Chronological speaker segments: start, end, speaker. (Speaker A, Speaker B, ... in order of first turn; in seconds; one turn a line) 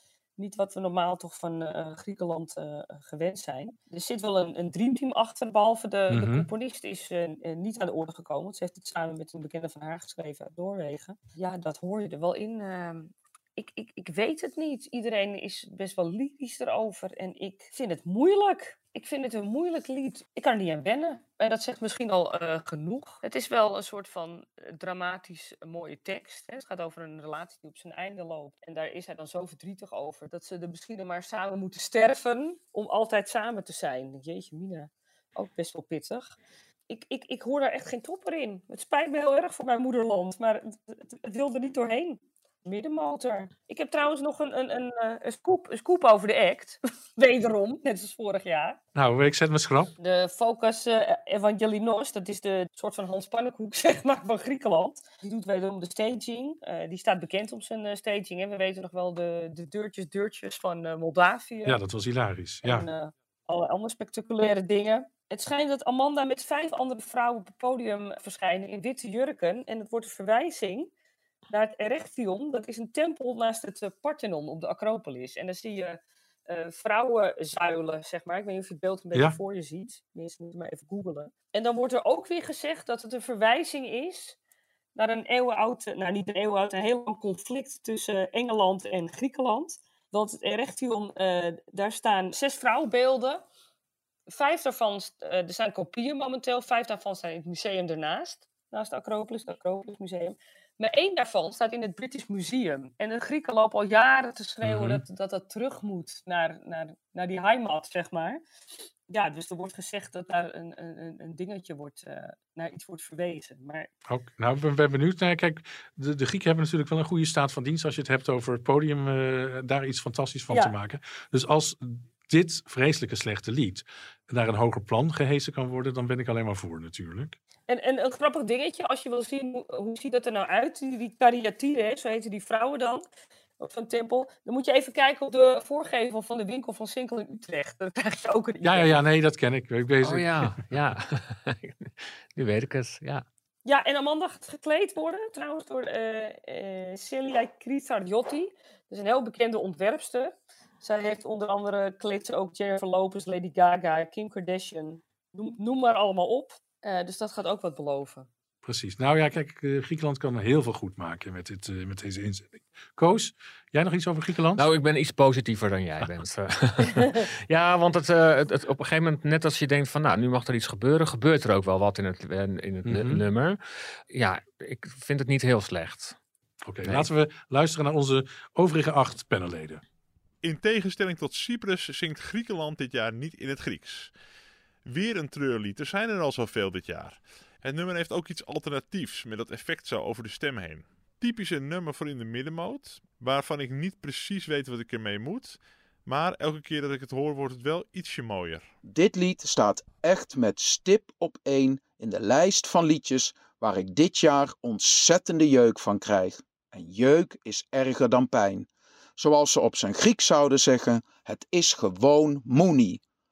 Speaker A: 0.4-36.3
Speaker B: 6.1-6.5
Speaker A: 36.9-48.8
Speaker B: 49.0-49.9
Speaker A: 50.0-61.8
Speaker B: 61.7-62.9
Speaker A: 62.6-70.9
Speaker A: 71.5-84.4
Speaker A: 85.0-93.4
Speaker A: 94.3-108.4
Speaker B: 104.6-105.0
Speaker A: 109.1-113.9
Speaker B: 114.1-127.4
Speaker A: 127.7-133.0
Speaker A: 133.6-138.9
Speaker B: 138.6-140.7
Speaker C: 140.0-143.2
Speaker A: 143.7-158.3
Speaker B: 158.6-164.7
Speaker C: 164.6-173.6
Speaker B: 172.8-173.2
Speaker C: 174.1-176.2
Speaker B: 176.7-179.8
Speaker C: 176.8-177.1
Speaker D: 180.4-184.1
Speaker D: 184.8-198.7
Speaker E: 198.8-213.0